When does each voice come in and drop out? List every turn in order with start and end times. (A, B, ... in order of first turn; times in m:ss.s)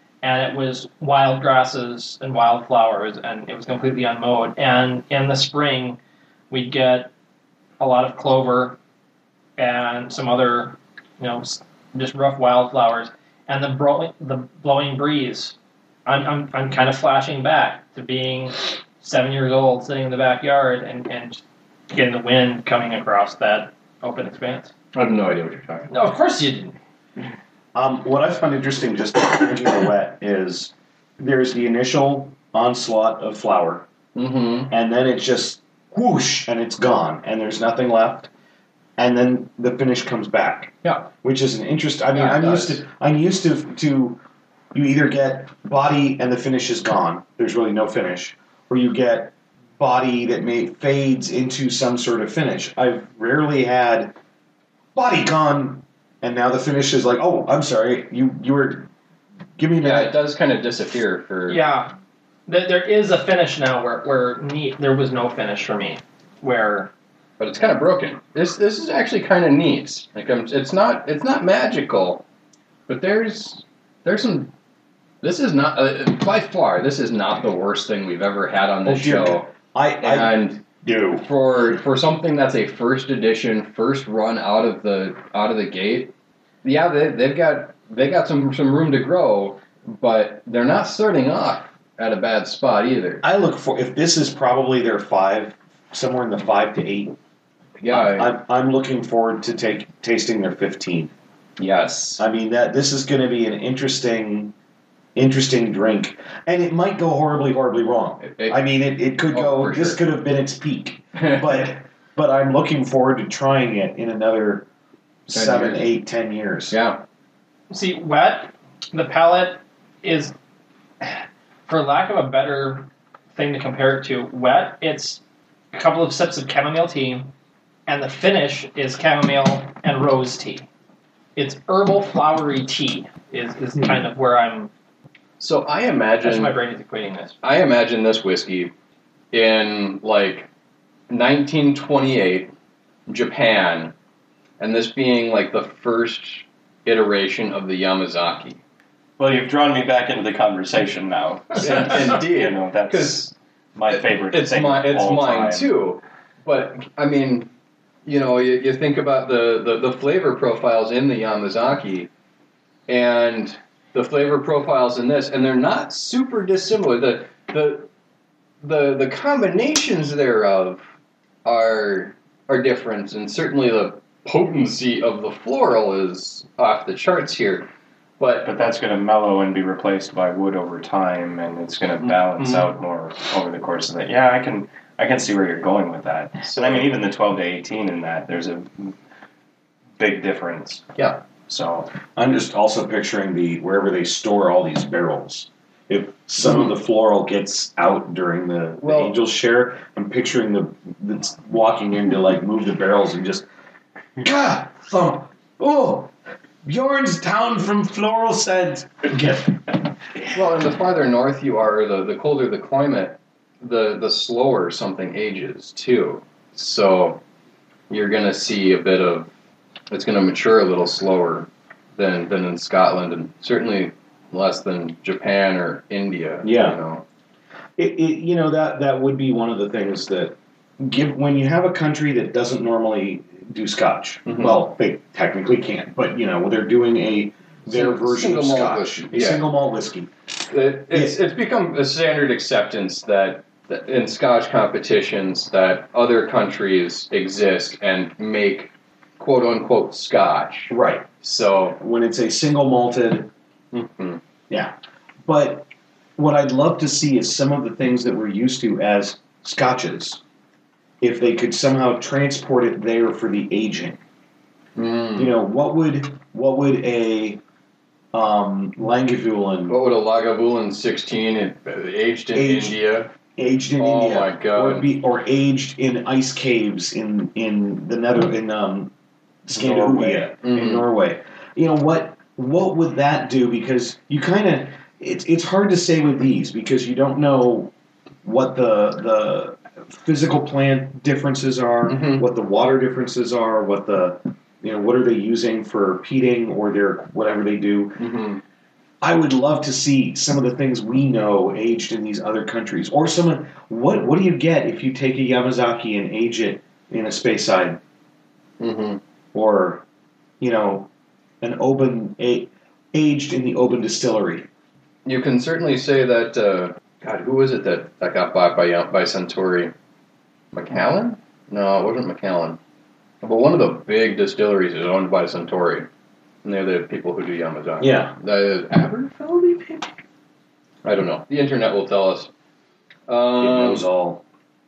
0:00.2-0:06.0 A
0:06.5-0:07.1 A
0:07.8-0:08.8 A
0:09.6-0:15.6 A
0:16.1-0:24.7 A
0:24.9-0:25.9 B
0:25.9-0:26.8 A
0:27.7-0:33.9 C
0:34.2-0:34.7 B
0:34.7-0:38.3 C
0:39.0-0:44.2 C
0:42.1-0:42.8 B
0:44.7-0:54.1 C
0:55.0-0:58.9 C
0:59.6-1:00.2 C
0:59.8-1:01.6 B
1:01.5-1:01.9 A
1:02.5-1:06.9 A
1:07.4-1:12.2 B
1:12.9-1:14.5 B
1:15.2-1:19.5 B
1:18.8-1:21.3 C
1:20.0-1:20.6 B
1:21.2-1:26.1 B
1:26.6-1:33.2 B
1:33.2-1:37.2 C
1:37.8-1:38.4 B
1:37.9-1:41.1 C
1:41.6-1:42.2 B
1:42.2-1:44.5 C
1:45.2-1:54.7 C
1:48.2-1:48.6 B
1:49.2-1:50.1 B
1:51.2-1:51.7 B
1:55.3-1:56.8 C
1:55.3-1:55.9 B
1:56.7-1:57.0 B
1:57.7-2:00.4 A
2:01.7-2:05.2 A
2:05.7-2:07.3 A
2:07.9-2:10.6 A
2:11.4-2:14.7 A
2:15.4-2:16.5 B
2:16.2-2:17.4 A
2:17.4-2:18.7 B
2:19.3-2:20.5 B
2:21.1-2:22.5 B
2:23.1-2:23.9 B
2:24.6-2:28.6 B
2:29.2-2:35.7 D
2:31.6-2:33.3 B
2:33.9-2:37.5 B
2:38.0-2:42.1 B
2:42.9-2:47.9 B
2:48.6-2:50.8 B
2:51.4-2:57.7 B
2:58.2-2:58.5 B
2:58.4-3:08.9 D
3:02.0-3:02.7 B
3:06.4-3:06.9 B
3:10.0-3:10.9 D
3:11.0-3:11.2 B
3:11.5-3:11.9 D
3:12.2-3:23.5 C
3:18.8-3:19.2 B
3:24.2-3:26.1 C
3:26.6-3:29.7 C
3:30.3-3:37.2 B
3:37.9-3:39.3 B
3:39.9-3:47.0 B
3:46.4-3:46.8 C
3:47.8-4:00.1 C
3:54.3-3:54.6 B
3:57.7-3:59.5 B
4:00.5-4:11.8 B
4:00.9-4:01.2 C
4:10.7-4:11.1 C
4:11.8-4:13.3 C
4:13.7-4:14.2 B
4:14.5-4:20.2 C
4:21.0-4:24.0 C
4:24.8-4:25.4 B
4:25.2-4:27.4 C
4:28.1-4:29.8 C
4:29.7-4:33.1 B
4:32.3-4:32.8 C
4:33.4-4:38.9 C
4:33.8-4:34.9 B
4:39.5-4:47.7 C
4:39.5-4:40.9 B
4:48.2-4:58.0 C
4:51.9-4:52.3 B
4:58.0-4:58.4 B
4:59.0-5:07.8 C
5:08.6-5:09.0 B
5:09.3-5:09.8 C
5:10.4-5:10.9 C
5:11.4-5:14.5 C
5:15.0-5:19.7 B
5:20.5-5:22.6 B
5:23.2-5:25.9 B
5:26.4-5:29.8 B
5:27.8-5:28.1 C
5:30.8-5:32.3 B
5:33.1-5:33.9 B
5:33.4-5:34.2 C